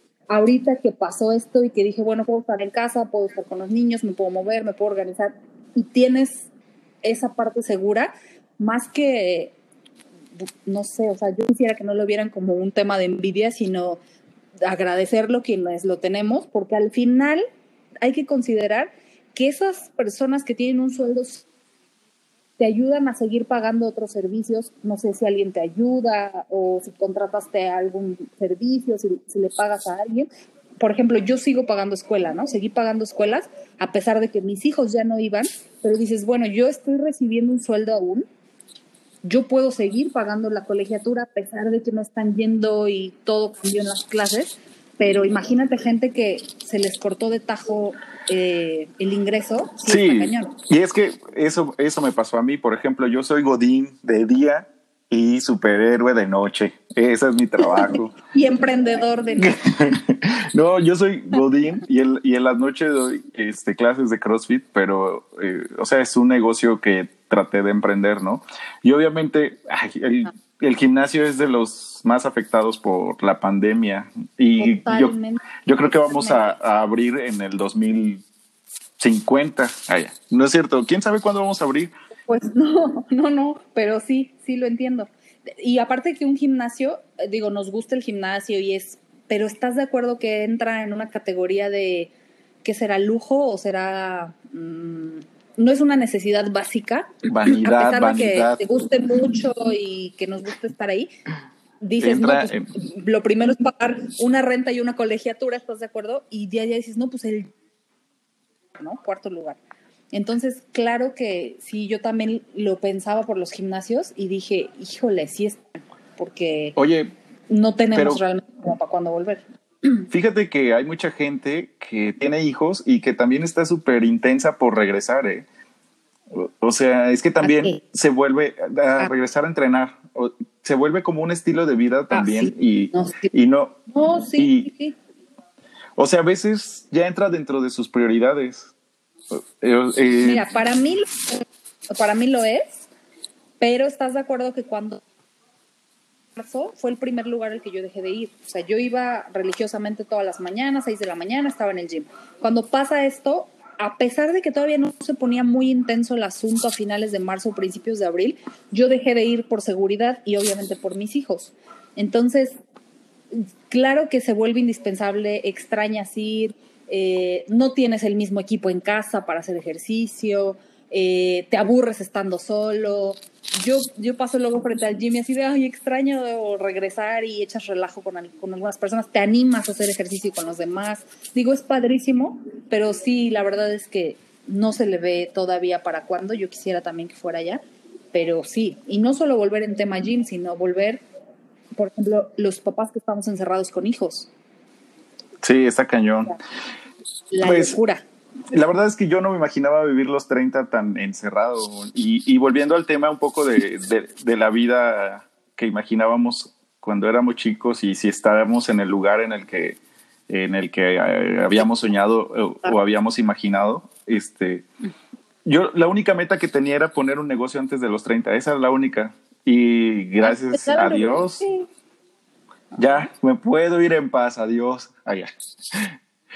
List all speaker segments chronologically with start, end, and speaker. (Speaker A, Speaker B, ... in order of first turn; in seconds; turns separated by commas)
Speaker A: 0.3-6.5, Speaker A: 7.0-9.5, Speaker A: 10.4-14.0, Speaker A: 14.6-17.4, Speaker A: 18.0-21.4, Speaker A: 22.6-30.3, Speaker A: 30.8-38.2, Speaker A: 39.2-50.5, Speaker B: 49.9-58.1, Speaker A: 57.6-59.6, Speaker B: 59.4-78.2, Speaker A: 74.6-76.6, Speaker B: 79.0-81.9, Speaker A: 82.2-92.1, Speaker A: 92.6-101.1, Speaker B: 97.3-98.6, Speaker A: 101.8-107.5, Speaker B: 102.0-102.7, Speaker A: 108.8-109.6, Speaker A: 110.1-116.8, Speaker B: 116.8-117.1, Speaker A: 117.5-120.0, Speaker B: 117.9-118.2, Speaker B: 120.1-125.5, Speaker B: 126.3-133.8, Speaker A: 127.4-127.8, Speaker A: 132.1-133.3, Speaker A: 133.9-134.9, Speaker B: 134.4-134.7, Speaker B: 136.0-138.7, Speaker B: 139.3-140.4, Speaker A: 140.2-142.9, Speaker A: 143.6-145.0, Speaker A: 146.3-162.6, Speaker A: 163.3-187.6, Speaker A: 188.1-191.0, Speaker A: 191.8-194.3, Speaker B: 195.4-196.4, Speaker A: 197.3-198.0, Speaker B: 197.4-197.8, Speaker B: 198.5-209.8, Speaker B: 210.3-214.6, Speaker B: 215.4-221.4, Speaker A: 220.2-221.7, Speaker A: 222.7-223.0, Speaker B: 222.8-225.9